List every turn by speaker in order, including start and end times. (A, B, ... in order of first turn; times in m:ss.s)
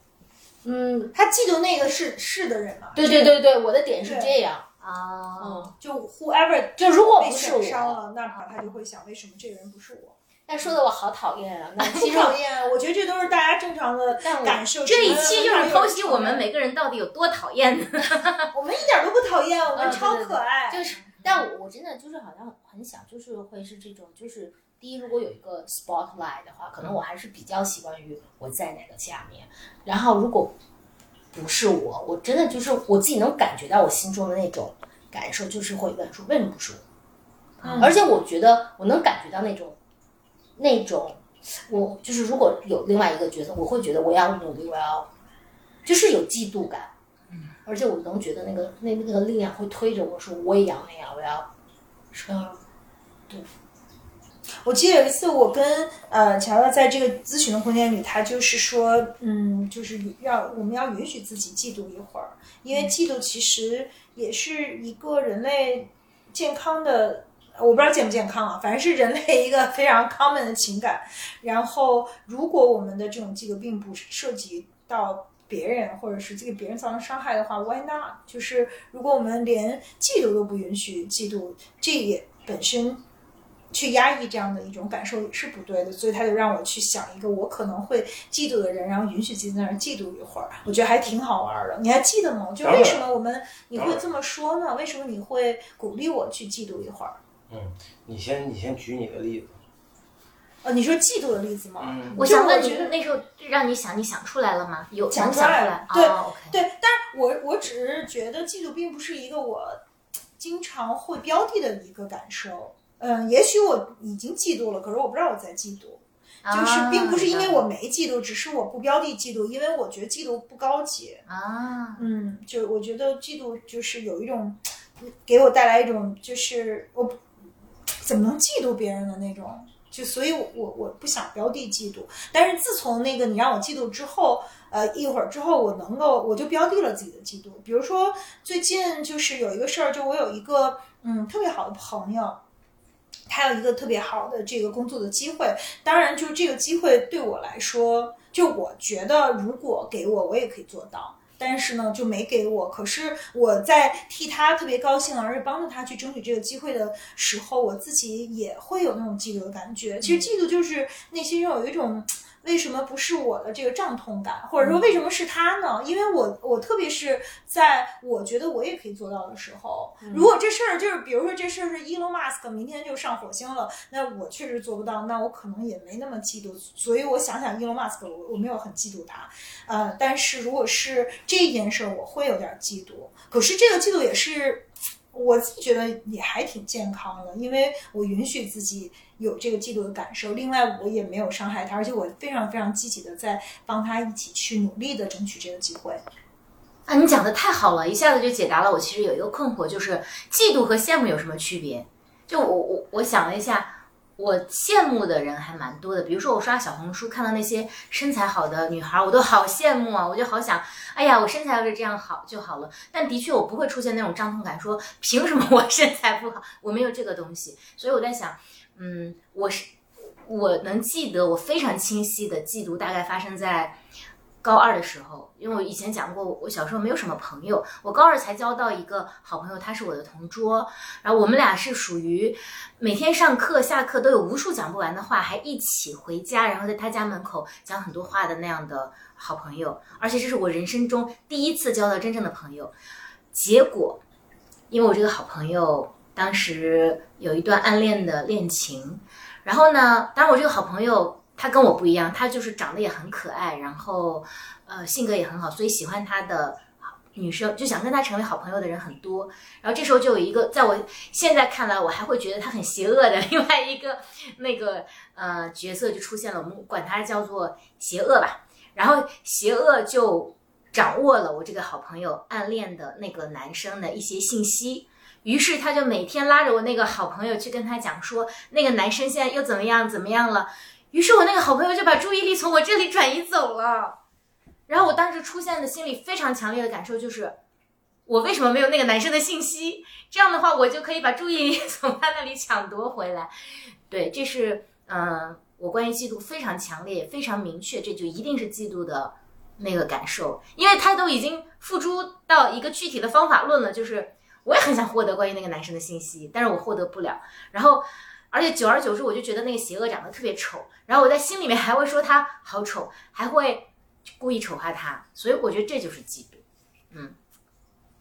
0:00.6-0:01.1 A
0:01.1-0:03.4 B
0:03.0-0:04.7 A
0:04.0-0:04.4 B
0:04.8-0:05.7 C
0:05.4-0:05.7 A
0:05.8-0:10.2 B
0:06.8-0:08.0 A
0:10.5-0:12.4 A
0:11.8-0:16.4 B
0:14.2-0:15.5 A
0:14.8-0:18.5 C
0:18.5-0:21.0 B
0:19.8-0:20.2 A
0:19.8-0:21.2 C
0:21.2-0:30.6 A
0:31.3-0:36.8 A
0:37.6-0:38.0 B
0:37.6-0:39.8 A
0:40.6-0:45.1 A
0:45.8-0:46.9 A
0:47.6-0:51.5 A
0:52.1-0:52.6 A
0:54.6-1:23.0 B
1:23.7-1:37.2 B
1:32.6-1:33.1 D
1:33.7-1:34.1 D
1:37.5-1:39.6 D
1:40.6-1:42.9 B
1:41.8-1:42.2 D
1:42.2-1:46.6 C
1:45.1-1:49.8 B
1:50.4-2:01.2 B
1:56.4-1:57.6 C
2:01.3-2:02.0 C
2:02.0-2:07.2 B
2:07.9-2:22.4 B
2:23.3-3:16.0 B
2:44.6-2:45.0 A
2:50.0-2:50.3 A
3:16.9-3:39.7 C
3:40.2-3:43.8 C
3:44.4-4:02.7 C
4:03.3-4:04.0 C
4:04.7-4:44.0 C
4:44.7-4:47.4 C
4:48.1-4:53.3 C
4:53.9-5:13.7 C
5:14.2-5:17.2 C